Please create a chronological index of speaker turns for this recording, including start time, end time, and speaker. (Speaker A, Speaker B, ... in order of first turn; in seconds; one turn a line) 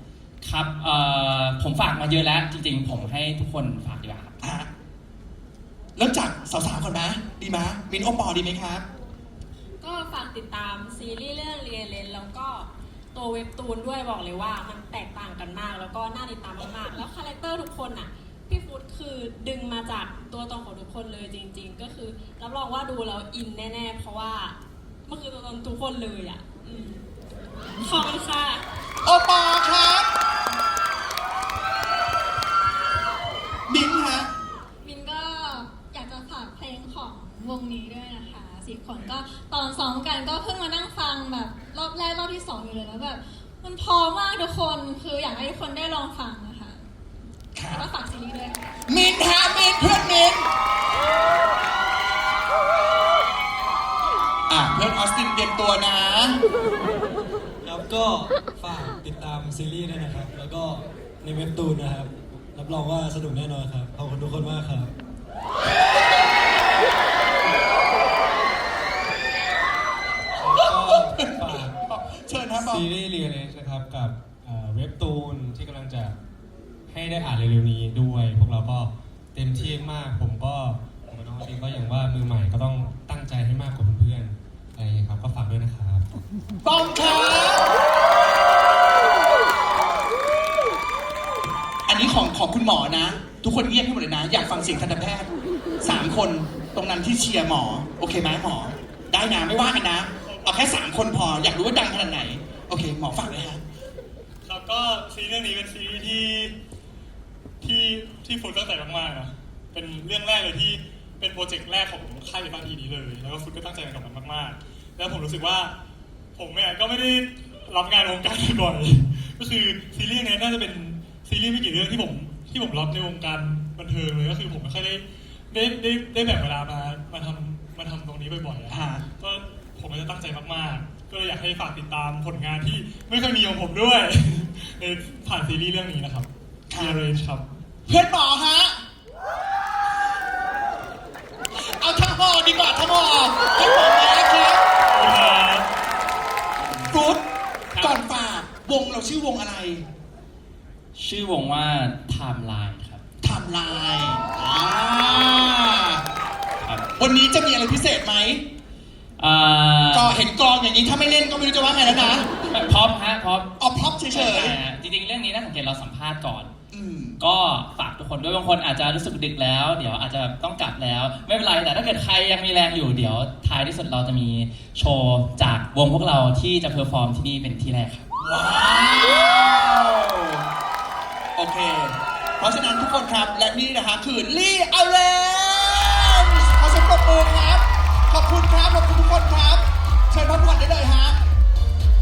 Speaker A: 0.4-4.3
Speaker B: 4.4-4.7
Speaker B: 6.0-8.8
Speaker C: 9.8-24.6
Speaker C: 25.1-27.1
Speaker C: 27.8-28.6
Speaker B: 29.0-30.1
Speaker B: 33.7-34.3
Speaker D: 34.8-46.8
Speaker B: 47.5-47.9
Speaker D: 47.6-48.8
Speaker B: 48.9-50.5
Speaker B: 54.5-56.4
Speaker E: 57.6-64.9
Speaker F: 70.4-71.8
Speaker B: 70.5-72.9
Speaker F: 72.6-76.2
Speaker F: 76.9-86.2
Speaker B: 86.6-87.8
Speaker B: 91.8-95.3
Speaker B: 95.8-103.6
Speaker G: 100.2-100.6
Speaker G: 104.5-106.5
Speaker G: 107.6-115.7
Speaker G: 116.3-137.4
Speaker B: 128.7-129.0
Speaker B: 136.7-137.0
Speaker B: 137.9-138.8
Speaker B: 141.5-144.6
Speaker G: 144.9-145.7
Speaker B: 146.6-147.2
Speaker A: 147.7-148.0
Speaker B: 147.8-149.8
Speaker A: 150.9-153.0
Speaker B: 153.2-156.0
Speaker A: 156.6-156.8
Speaker B: 157.0-158.4
Speaker A: 159.2-160.1
Speaker B: 159.9-162.3
Speaker A: 162.3-163.5
Speaker B: 163.6-164.6
Speaker A: 164.1-166.5
Speaker B: 166.7-167.2
Speaker A: 167.2-178.1
Speaker B: 178.2-180.4
Speaker B: 181.3-191.2